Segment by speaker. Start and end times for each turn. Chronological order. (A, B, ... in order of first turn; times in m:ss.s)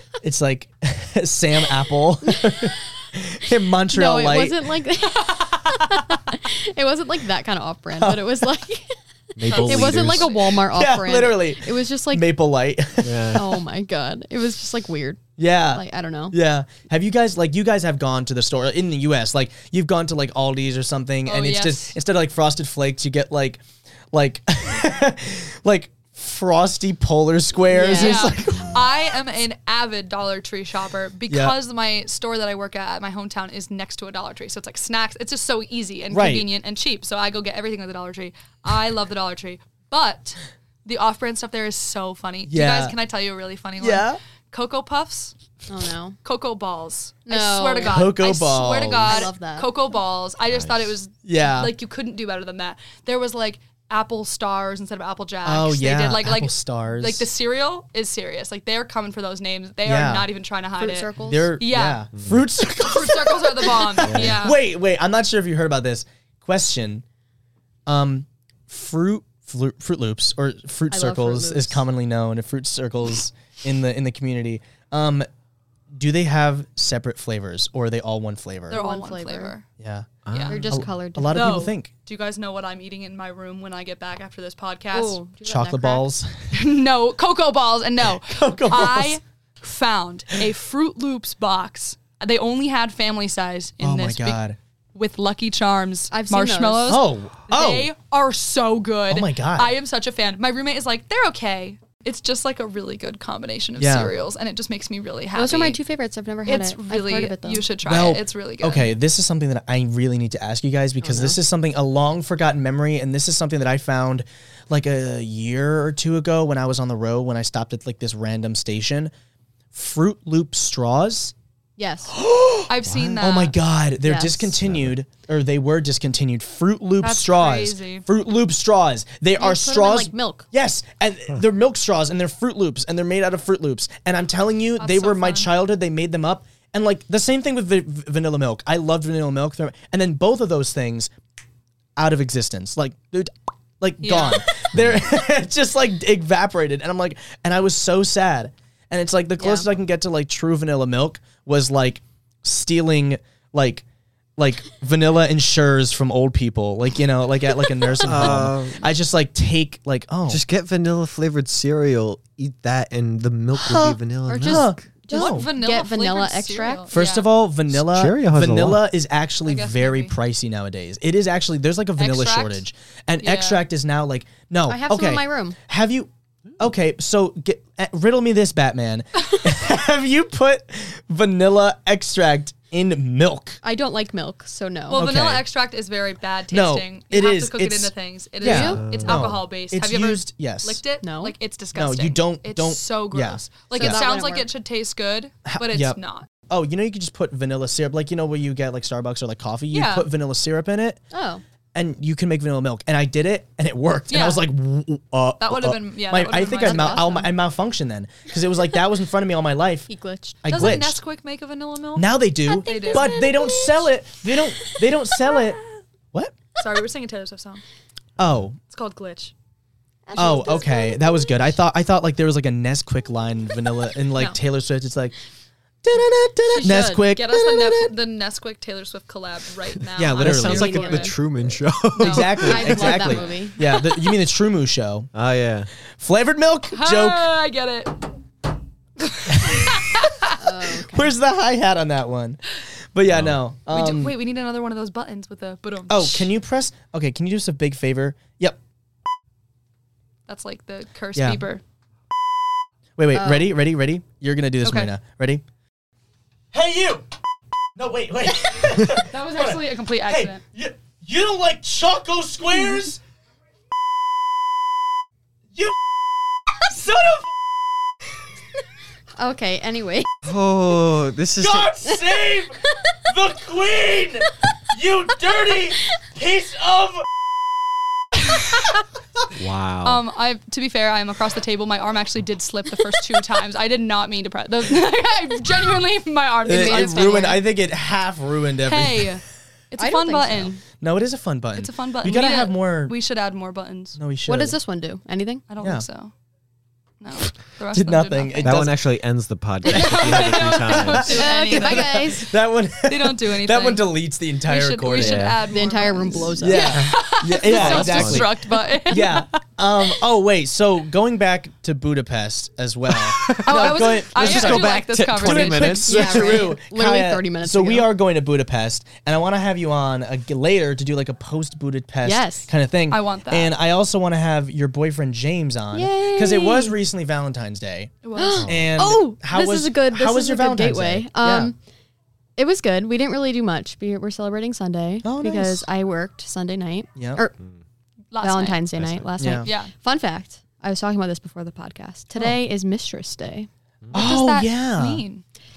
0:00.2-0:04.6 A
0:02.2-0:02.8 B
0:03.9-0:08.9 B
0:08.0-0:08.4 A
0:09.4-0:10.3 C
0:09.5-0:10.4 D
0:09.5-0:12.3 B
0:10.6-0:13.5 A
0:13.0-0:13.4 C
0:13.3-0:16.4 B
0:15.4-0:28.8 A
0:21.2-0:21.9 D
0:27.7-0:28.3 B
0:27.9-0:45.3 D
0:31.3-0:31.5 A
0:36.1-0:36.5 A
0:42.5-0:42.9 A
0:43.8-0:44.2 A
0:45.7-0:46.2 B
0:46.2-1:02.0 D
0:47.3-0:48.1 B
0:47.8-0:49.3 A
0:49.0-0:49.7 B
0:50.5-0:50.9 C
0:51.2-0:51.7 A
0:55.4-0:57.3 A
0:59.8-1:00.3 A
1:00.8-1:01.5 B
1:01.2-1:07.0 A
1:02.8-1:04.6 D
1:04.0-1:04.4 C
1:07.8-1:15.3 A
1:10.9-1:11.8 B
1:15.9-1:18.8 A
1:18.7-1:19.6 D
1:18.7-1:19.5 B
1:19.8-1:20.1 A
1:20.3-1:20.7 C
1:20.3-1:20.7 D
1:20.5-1:21.6 B
1:20.7-1:21.9 A
1:21.3-1:25.2 D
1:24.9-1:26.0 B
1:25.4-1:26.3 A
1:26.5-1:34.4 D
1:28.1-1:29.2 A
1:33.8-1:34.6 A
1:34.9-1:45.8 D
1:36.1-1:37.0 B
1:36.9-1:37.9 A
1:39.1-1:39.7 A
1:43.8-1:44.1 A
1:45.3-1:47.6 B
1:46.4-1:48.9 D
1:47.8-1:59.1 A
1:51.0-1:51.4 B
1:59.7-2:01.3 A
2:01.8-2:02.1 B
2:02.1-2:21.1 A
2:02.7-2:03.5 D
2:04.0-2:04.5 B
2:04.6-2:04.9 C
2:07.0-2:08.0 D
2:09.4-2:10.5 B
2:14.8-2:15.5 D
2:22.0-2:33.8 A
2:24.0-2:24.4 D
2:29.4-2:29.7 B
2:34.4-2:40.4 A
2:38.0-2:38.8 C
2:40.3-2:44.8 C
2:43.6-2:45.5 A
2:44.3-2:46.9 B
2:45.1-2:47.3 D
2:46.9-3:03.6 A
2:47.7-2:48.8 C
2:49.4-2:50.1 D
2:52.0-2:52.6 D
2:53.2-2:53.6 D
2:54.7-2:55.6 B
3:03.6-3:05.0 B
3:04.9-3:16.3 D
3:04.9-3:05.4 A
3:06.5-3:10.8 A
3:08.4-3:08.8 B
3:08.8-3:09.3 C
3:11.0-3:11.3 B
3:11.7-3:14.0 A
3:13.7-3:14.5 B
3:15.4-3:16.0 A
3:16.5-3:21.0 A
3:19.7-3:20.1 D
3:21.1-3:21.4 B
3:21.7-3:29.9 A
3:24.1-3:24.4 D
3:25.4-3:27.1 D
3:26.5-3:27.3 B
3:29.9-3:30.4 B
3:30.4-3:31.0 A
3:30.4-3:33.2 D
3:32.0-3:35.6 A
3:32.5-3:33.8 B
3:36.6-3:37.6 D
3:38.2-3:38.6 A
3:38.7-3:39.3 D
3:40.1-3:41.4 B
3:40.1-3:45.1 A
3:45.8-3:47.9 A
3:46.5-3:47.0 B
3:46.6-3:51.1 D
3:50.0-3:51.0 A
3:50.0-3:53.2 C
3:50.4-3:51.1 B
3:52.0-3:52.9 D
3:52.0-3:55.1 A
3:52.4-3:53.6 B
3:53.6-3:54.1 D
3:55.1-3:55.7 C
3:56.0-3:57.3 A
3:56.7-3:58.1 D
3:59.0-4:00.5 D
3:59.3-3:59.8 A
4:00.4-4:01.1 B
4:00.8-4:02.4 A
4:02.9-4:04.1 A
4:03.1-4:03.4 C
4:03.7-4:06.3 D
4:05.9-4:08.6 A
4:10.3-4:11.6 D
4:11.2-4:11.4 A
4:13.0-4:15.4 A
4:13.1-4:13.5 B
4:14.6-4:14.9 D
4:16.5-4:17.0 A
4:17.8-4:23.0 A
4:18.8-4:20.4 D
4:26.6-4:27.3 A
4:29.2-4:30.1 B
4:30.2-4:31.7 C
4:31.4-4:37.1 A
4:32.6-4:33.0 B
4:39.3-4:40.0 C
4:39.8-4:47.4 D
4:46.4-4:49.2 A
4:46.5-4:47.4 B
4:48.6-4:50.6 D
4:49.8-4:50.5 B
4:50.8-4:52.9 A
4:51.6-4:54.0 D
4:54.0-4:54.6 A
4:54.3-4:55.4 B
4:55.5-4:56.1 D
4:55.6-4:55.8 A
4:57.0-4:58.7 D
4:57.7-4:58.7 A
4:58.4-5:01.2 C
4:59.6-5:02.2 D
4:59.6-5:05.3 A
5:01.1-5:02.3 B
5:02.8-5:03.9 D
5:04.4-5:09.3 D
5:04.9-5:05.4 C
5:05.4-5:06.8 B
5:06.4-5:31.5 A
5:07.4-5:08.3 C
5:13.0-5:16.5 C
5:13.3-5:15.9 D
5:15.8-5:17.9 B
5:22.0-5:22.5 B
5:22.9-5:23.5 D
5:25.7-5:26.8 B
5:28.0-5:28.5 D
5:28.1-5:31.6 B
5:32.4-5:37.3 B
5:35.0-5:35.7 A
5:37.0-5:37.2 A
5:38.1-5:38.7 D
5:38.2-5:43.5 B
5:38.8-5:39.0 C
5:39.2-5:39.5 A
5:39.4-5:39.7 D
5:43.9-5:45.0 A
5:43.9-5:45.2 D